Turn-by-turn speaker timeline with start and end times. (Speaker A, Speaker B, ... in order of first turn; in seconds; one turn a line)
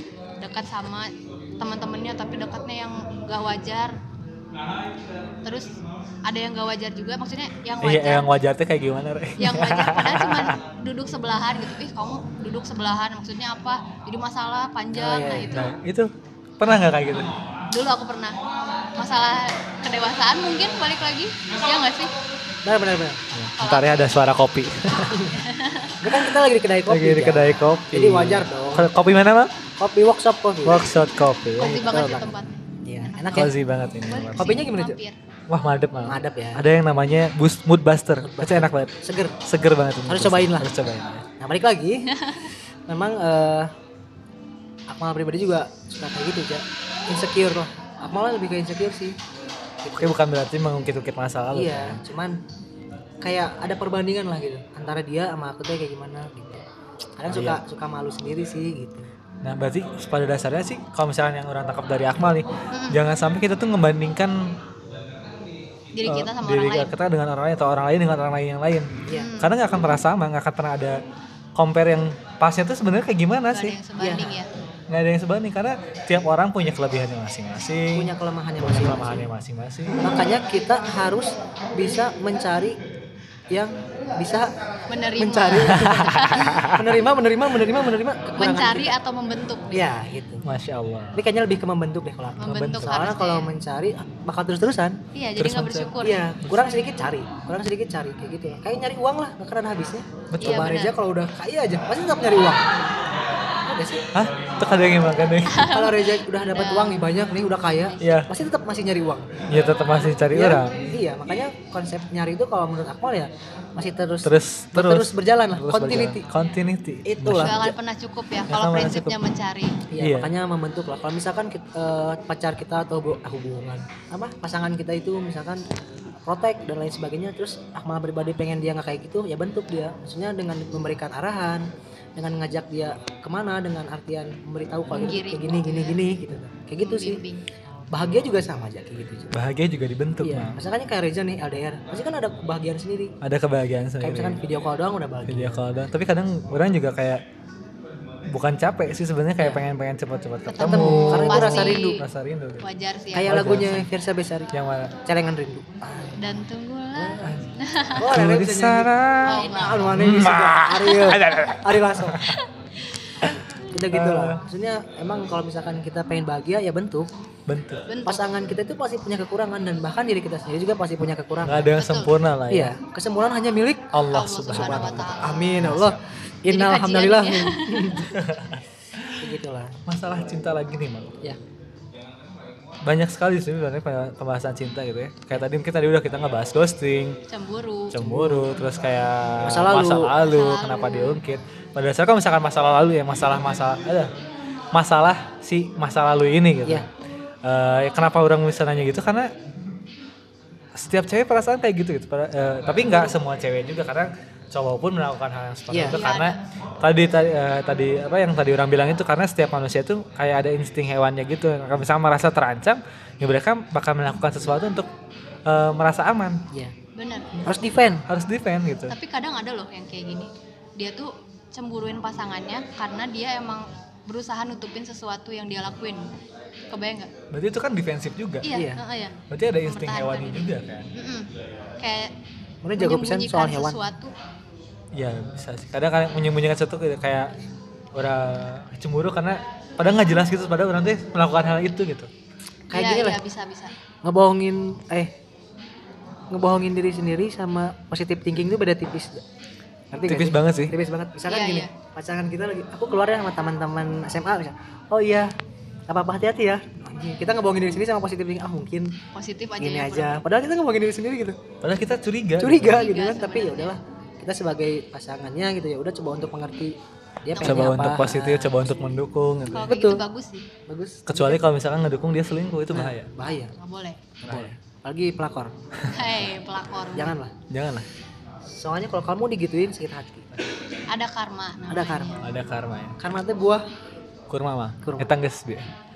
Speaker A: 0.4-3.9
Speaker A: 5.4-5.7
Speaker A: 6.2-8.3
Speaker B: 7.8-10.6
Speaker A: 9.4-15.7
Speaker C: 14.9-15.7
Speaker B: 15.5-17.3
Speaker A: 17.7-18.4
Speaker A: 19.0-22.1
Speaker C: 22.6-23.2
Speaker B: 23.3-25.3
Speaker A: 23.6-24.2
Speaker A: 25.2-26.0
Speaker C: 26.0-28.9
Speaker B: 26.9-29.5
Speaker C: 29.8-30.9
Speaker B: 30.6-31.9
Speaker A: 31.6-35.2
Speaker C: 31.6-32.3
Speaker C: 32.8-33.5
Speaker B: 33.3-34.6
Speaker C: 34.4-35.0
Speaker B: 35.5-38.9
Speaker C: 36.0-36.6
Speaker C: 38.2-39.4
Speaker B: 39.5-41.3
Speaker C: 40.1-40.7
Speaker C: 41.4-42.1
Speaker A: 42.1-42.5
Speaker C: 42.9-43.7
Speaker C: 44.9-49.2
Speaker C: 49.8-50.2
Speaker B: 50.0-52.0
Speaker C: 51.5-52.4
Speaker C: 53.2-56.6
Speaker C: 57.2-59.1
Speaker B: 57.3-57.6
Speaker B: 59.4-64.6
Speaker A: 62.7-63.0
Speaker A: 66.0-66.9
Speaker B: 66.1-71.0
Speaker C: 69.1-69.3
Speaker A: 69.1-69.5
Speaker B: 71.6-73.8
Speaker A: 73.5-74.5
Speaker C: 74.0-74.4
Speaker B: 74.9-80.0
Speaker C: 77.9-79.3
Speaker C: 80.0-82.8
Speaker C: 83.5-84.5
Speaker A: 84.9-86.7
Speaker C: 85.2-89.0
Speaker B: 85.7-86.9
Speaker A: 88.4-89.9
Speaker C: 89.7-90.5
Speaker B: 90.5-91.2
Speaker C: 91.2-95.0
Speaker A: 92.4-93.5
Speaker B: 92.5-92.9
Speaker A: 95.2-96.3
Speaker B: 95.4-96.8
Speaker C: 96.0-102.7
Speaker B: 100.3-100.7
Speaker A: 100.4-101.0
Speaker C: 103.7-104.0
Speaker B: 104.1-105.6
Speaker A: 105.5-107.1
Speaker C: 105.7-109.3
Speaker B: 108.0-108.3
Speaker B: 109.5-110.9
Speaker C: 110.3-116.2
Speaker B: 114.2-117.7
Speaker C: 117.0-117.7
Speaker A: 117.4-119.8
Speaker B: 118.5-119.2
Speaker C: 119.9-125.6
Speaker B: 120.0-120.3
Speaker C: 126.2-137.2
Speaker A: 134.9-136.0
Speaker A: 136.8-137.4
Speaker C: 137.9-139.4
Speaker B: 139.3-140.6
Speaker C: 140.2-143.1
Speaker B: 143.2-144.4
Speaker C: 144.0-145.6
Speaker B: 145.3-147.2
Speaker B: 148.3-152.7
Speaker A: 150.5-152.0
Speaker C: 150.6-152.0
Speaker A: 152.6-153.4
Speaker C: 153.1-154.5
Speaker B: 153.2-153.9
Speaker B: 154.5-155.0
Speaker C: 155.1-156.1
Speaker A: 156.2-158.0
Speaker C: 156.9-157.3
Speaker B: 157.2-162.4
Speaker C: 158.0-162.3
Speaker A: 159.2-159.9
Speaker C: 163.7-167.1
Speaker B: 163.9-164.4
Speaker B: 167.5-167.8
Speaker A: 167.9-168.2
Speaker C: 168.1-171.7
Speaker B: 171.4-172.8
Speaker A: 171.8-172.1
Speaker C: 172.5-173.9
Speaker B: 173.9-176.0
Speaker A: 174.1-175.9
Speaker C: 174.5-178.1
Speaker A: 176.5-178.1
Speaker B: 178.1-179.3
Speaker C: 179.2-179.8
Speaker B: 179.9-181.2
Speaker B: 182.8-187.2
Speaker A: 187.3-188.0
Speaker B: 187.9-194.1
Speaker C: 188.0-188.5
Speaker C: 189.4-190.1
Speaker A: 190.2-191.2
Speaker B: 194.7-196.9
Speaker B: 197.4-199.3
Speaker B: 200.8-214.9
Speaker C: 202.8-203.1
Speaker C: 205.7-206.0
Speaker A: 205.9-206.4
Speaker B: 215.5-216.4
Speaker A: 217.0-217.3
Speaker C: 217.4-218.0
Speaker B: 218.1-218.9
Speaker A: 218.9-226.0
Speaker A: 226.7-227.1
Speaker B: 227.3-228.5
Speaker A: 228.4-232.1
Speaker C: 228.5-228.8
Speaker B: 229.3-230.9
Speaker C: 232.6-233.8
Speaker A: 232.8-234.1
Speaker B: 234.9-237.3
Speaker B: 237.9-242.1
Speaker C: 242.7-243.2
Speaker A: 242.7-243.7
Speaker C: 244.0-245.1
Speaker C: 246.3-249.2
Speaker C: 249.9-255.3
Speaker B: 250.0-250.8
Speaker A: 251.3-251.7
Speaker C: 255.9-258.9
Speaker A: 259.1-260.2
Speaker C: 259.6-261.4
Speaker B: 261.6-262.8
Speaker C: 262.4-268.8
Speaker A: 262.6-263.8
Speaker A: 267.3-267.7
Speaker B: 267.4-269.7
Speaker A: 269.5-270.5
Speaker C: 269.6-270.0
Speaker C: 270.7-271.4
Speaker B: 271.1-273.1
Speaker C: 272.7-273.5
Speaker A: 273.2-274.0
Speaker B: 274.2-274.6
Speaker C: 274.3-275.6
Speaker A: 275.9-277.1
Speaker C: 276.9-277.3
Speaker B: 277.5-277.9
Speaker C: 278.5-280.3
Speaker A: 280.9-282.2
Speaker C: 281.7-282.2
Speaker B: 282.2-283.0
Speaker C: 283.0-283.6
Speaker B: 284.3-285.7
Speaker C: 284.8-285.1